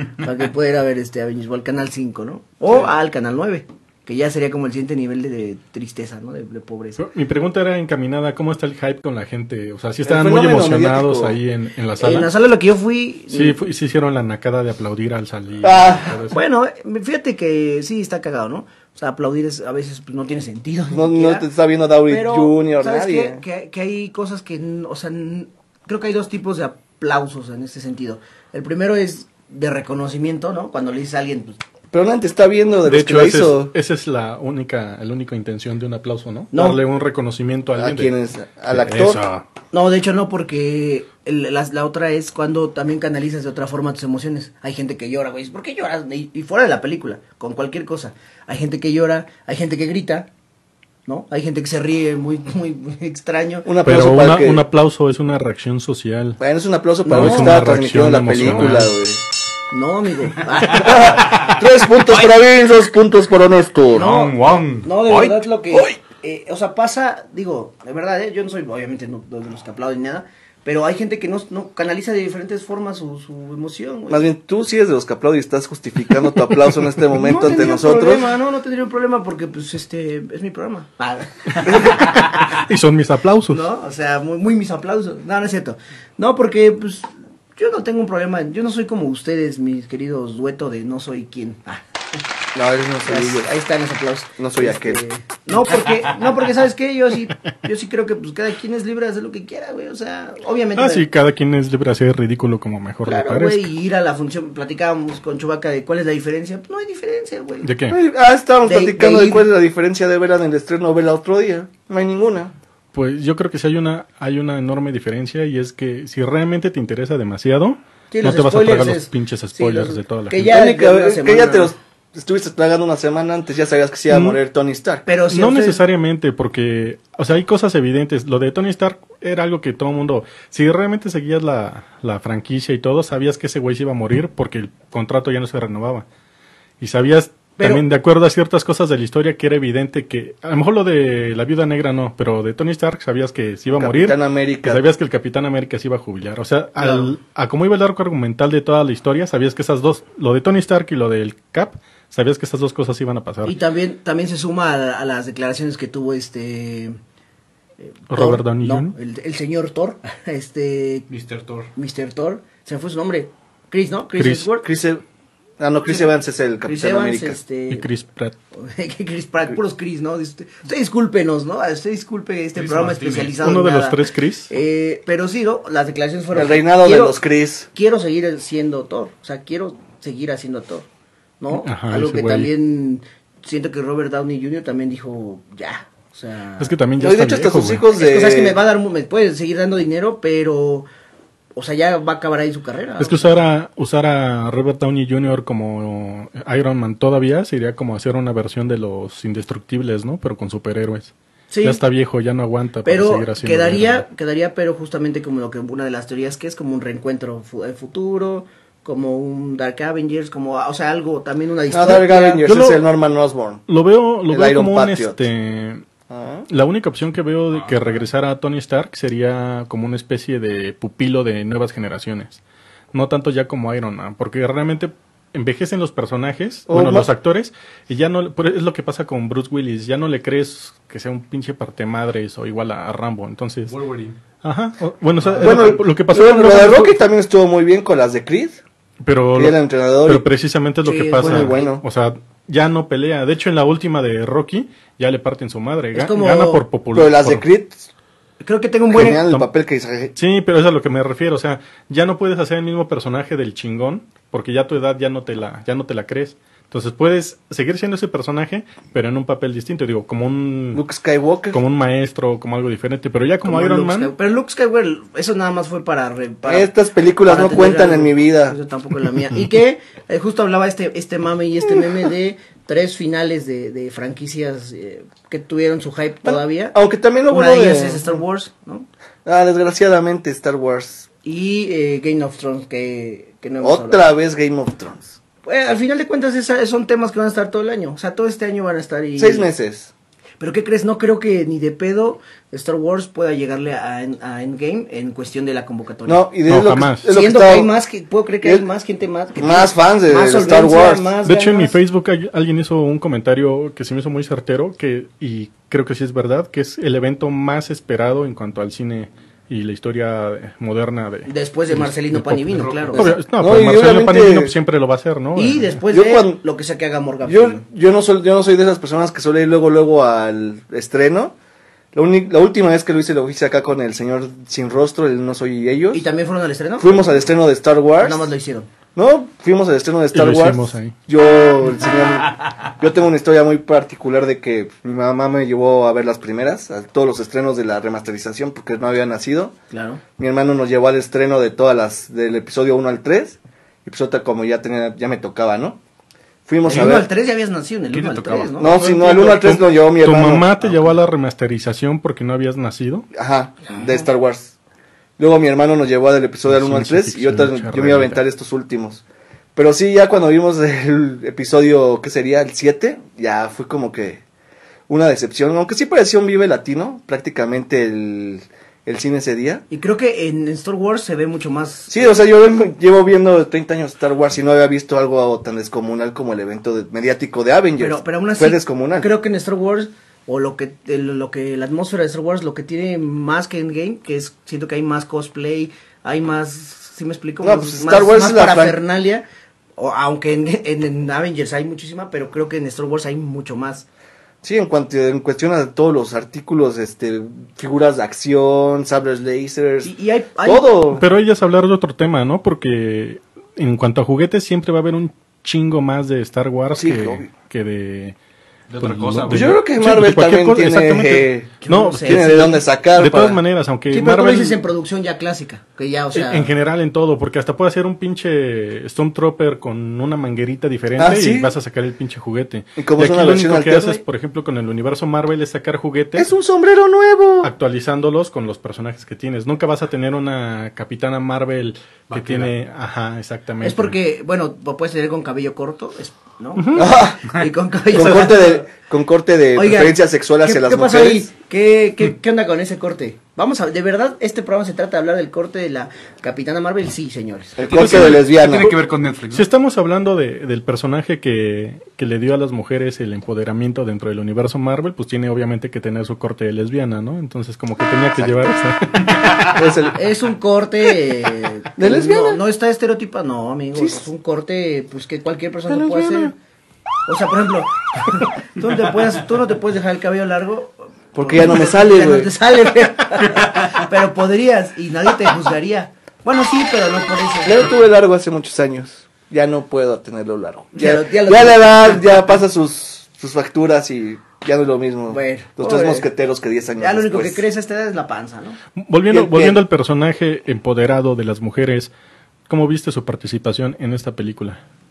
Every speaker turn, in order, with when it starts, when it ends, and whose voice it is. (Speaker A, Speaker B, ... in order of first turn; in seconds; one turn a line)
Speaker A: 0.2-7.0
Speaker B: 7.0-12.3
Speaker C: 10.1-11.4
Speaker A: 12.0-13.6
Speaker B: 13.3-16.4
Speaker C: 15.6-16.2
Speaker A: 16.3-21.5
Speaker C: 20.9-23.4
Speaker A: 22.1-31.6
Speaker C: 31.9-33.7
Speaker B: 32.9-38.1
Speaker A: 36.5-36.8
Speaker C: 37.8-39.2
Speaker B: 38.7-39.4
Speaker A: 39.7-50.3
Speaker A: 51.1-53.7
Speaker C: 53.6-54.6
Speaker B: 53.9-56.4
Speaker C: 56.4-59.2
Speaker A: 57.0-57.5
Speaker B: 57.1-58.9
Speaker A: 59.7-61.3
Speaker C: 60.8-64.1
Speaker A: 63.9-74.3
Speaker D: 63.9-65.4
Speaker C: 65.7-66.0
Speaker C: 74.1-78.3
Speaker A: 77.2-82.6
Speaker B: 82.5-83.6
Speaker A: 83.5-91.8
Speaker C: 92.5-93.5
Speaker A: 93.0-101.1
Speaker C: 94.4-95.0
Speaker B: 100.8-103.7
Speaker A: 103.1-107.7
Speaker B: 107.6-108.0
Speaker C: 107.9-112.5
Speaker A: 108.7-109.4
Speaker B: 112.9-120.5
Speaker A: 118.1-121.7
Speaker C: 120.5-125.0
Speaker B: 124.1-124.4
Speaker A: 125.1-125.8
Speaker B: 125.3-136.1
Speaker B: 136.8-153.6
Speaker A: 137.6-137.8
Speaker C: 143.8-144.8
Speaker A: 146.8-147.1
Speaker A: 153.4-157.0
Speaker A: 157.8-161.1
Speaker B: 158.1-158.9
Speaker D: 161.1-161.7
Speaker A: 161.8-164.7
Speaker B: 164.2-164.5
Speaker C: 164.6-165.0
Speaker C: 165.6-167.4
Speaker A: 166.7-167.9
Speaker B: 167.7-168.3
Speaker A: 168.6-177.2
Speaker D: 172.6-173.4
Speaker B: 173.4-174.5
Speaker C: 176.3-177.7
Speaker A: 177.7-180.9
Speaker A: 181.4-186.7
Speaker B: 181.5-182.5
Speaker B: 186.6-187.8
Speaker C: 187.0-188.6
Speaker A: 187.9-190.9
Speaker A: 191.6-193.4
Speaker B: 193.0-201.1
Speaker A: 201.5-201.8
Speaker B: 201.6-204.1
Speaker A: 202.8-212.5
Speaker C: 211.7-213.6
Speaker B: 212.4-212.8
Speaker B: 213.7-215.8
Speaker C: 214.3-215.3
Speaker C: 216.1-216.5
Speaker B: 216.5-222.4
Speaker D: 217.5-218.0
Speaker B: 222.9-233.8
Speaker C: 226.7-227.1
Speaker D: 233.7-234.2
Speaker B: 234.4-237.0
Speaker D: 235.2-235.8
Speaker C: 235.4-238.6
Speaker B: 239.0-247.4
Speaker C: 239.3-240.3
Speaker A: 240.8-241.7
Speaker C: 241.2-241.8
Speaker A: 245.9-246.6
Speaker C: 246.9-247.9
Speaker A: 248.4-249.2
Speaker C: 248.9-250.2
Speaker B: 249.0-249.5
Speaker B: 250.2-260.8
Speaker C: 260.7-261.6
Speaker B: 261.5-264.1
Speaker A: 263.4-266.7
Speaker C: 266.4-268.6
Speaker A: 267.2-276.8
Speaker C: 276.2-278.1
Speaker A: 277.3-278.9
Speaker C: 279.2-281.1
Speaker A: 281.2-284.1
Speaker C: 283.6-285.2
Speaker A: 285.4-289.5
Speaker C: 289.2-289.9
Speaker A: 290.4-296.2
Speaker C: 296.1-297.7
Speaker B: 296.5-297.1
Speaker A: 297.1-301.8
Speaker C: 299.4-301.1
Speaker B: 301.2-315.8
Speaker A: 311.3-313.1
Speaker D: 312.6-313.0
Speaker C: 313.4-314.5
Speaker A: 315.4-317.6
Speaker C: 315.9-316.4
Speaker C: 317.3-321.4
Speaker C: 321.9-326.1
Speaker A: 325.9-327.2
Speaker C: 326.8-328.3
Speaker A: 328.0-328.7
Speaker C: 329.0-339.6
Speaker B: 330.1-330.9
Speaker A: 339.7-340.0
Speaker C: 340.2-345.8
Speaker C: 346.5-347.1
Speaker A: 346.6-348.8
Speaker D: 347.9-348.9
Speaker C: 348.6-350.6
Speaker B: 348.8-353.1
Speaker C: 353.1-354.5
Speaker A: 353.7-354.1
Speaker C: 355.2-359.0
Speaker B: 356.5-358.2
Speaker C: 359.6-364.2
Speaker C: 364.9-369.6
Speaker A: 369.7-372.1
Speaker C: 371.9-379.1
Speaker A: 377.8-389.2
Speaker C: 387.4-388.8
Speaker A: 389.8-393.9
Speaker C: 394.4-399.9
Speaker A: 399.9-400.7
Speaker C: 400.4-401.0
Speaker B: 401.0-408.2
Speaker C: 406.8-407.3
Speaker D: 408.7-409.6
Speaker B: 408.8-414.6
Speaker C: 409.3-413.4
Speaker A: 411.6-412.5
Speaker A: 413.9-416.5
Speaker B: 416.1-426.3
Speaker C: 421.0-421.5
Speaker C: 422.8-424.0
Speaker C: 426.2-427.5
Speaker B: 427.4-434.0
Speaker D: 432.1-432.5
Speaker A: 433.6-438.7
Speaker B: 436.6-436.9
Speaker C: 436.8-441.3
Speaker A: 439.6-447.6
Speaker C: 447.6-448.8
Speaker D: 447.6-449.5
Speaker B: 447.7-448.2
Speaker B: 449.3-459.3
Speaker C: 458.2-458.5
Speaker C: 459.5-460.1
Speaker A: 459.9-466.3
Speaker C: 461.8-462.4
Speaker C: 463.8-464.1
Speaker C: 465.7-466.3
Speaker A: 467.1-477.6
Speaker C: 471.1-472.3
Speaker C: 477.4-487.4
Speaker A: 480.8-482.0
Speaker A: 485.1-486.1
Speaker A: 486.8-488.6
Speaker B: 488.8-491.9
Speaker C: 489.1-489.6
Speaker B: 492.5-494.6